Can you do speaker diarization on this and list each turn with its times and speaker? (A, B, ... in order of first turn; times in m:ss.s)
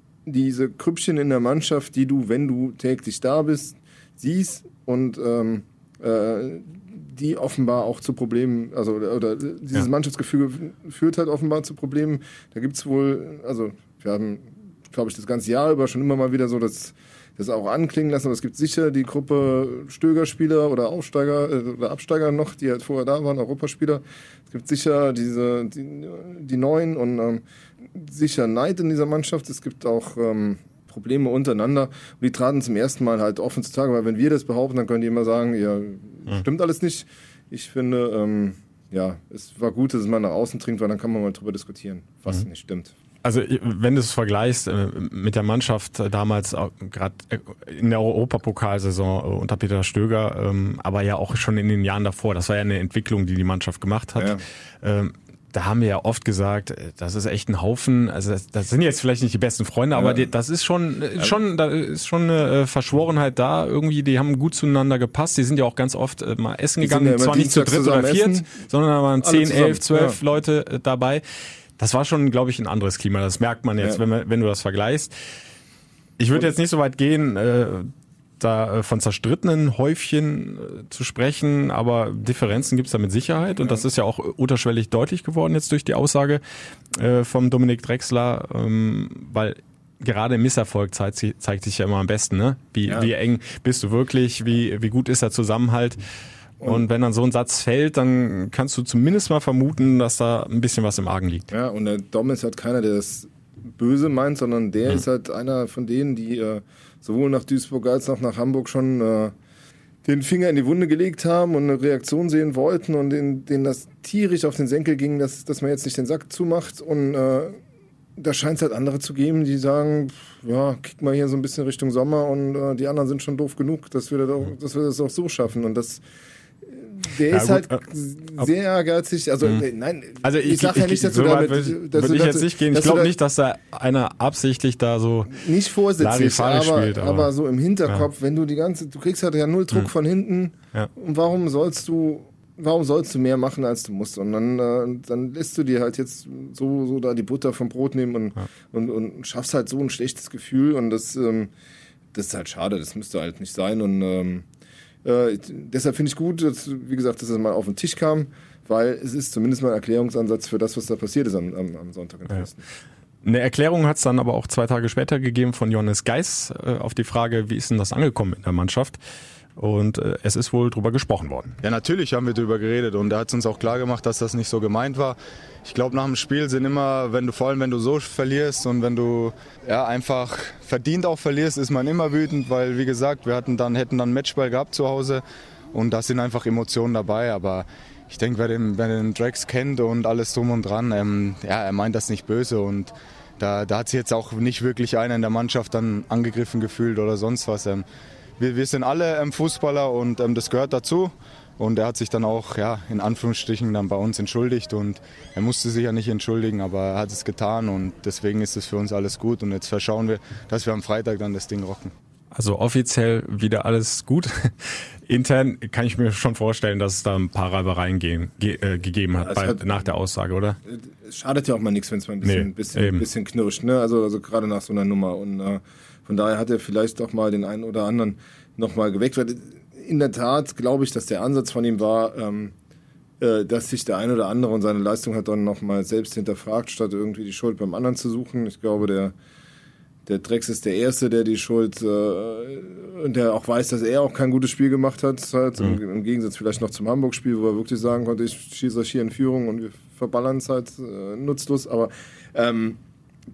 0:00.3-0:42.9 A
0:43.2-1:11.2 B
1:00.0-1:00.3 A
1:06.8-1:08.5 A
1:09.2-1:10.2 A
1:11.8-1:15.1 B
1:16.2-1:26.4 B
1:27.0-1:36.0 B
1:36.6-1:41.5 B
1:41.5-1:49.3 A
1:50.0-1:57.6 A
1:58.2-2:06.0 A
2:06.6-2:13.1 A
2:07.3-2:07.8 B
2:10.2-2:15.3 B
2:15.3-2:31.5 A
2:16.0-2:17.3 B
2:32.1-2:34.5 A
2:35.0-2:42.6 A
2:43.2-2:49.0 B
2:49.6-2:51.6 B
2:51.6-3:17.8 C
3:18.4-3:31.9 C
3:32.3-3:40.6 B
3:39.2-3:39.9 A
3:40.7-3:52.5 A
3:42.2-3:43.1 B
3:53.2-3:59.2 A
4:00.1-4:12.8 A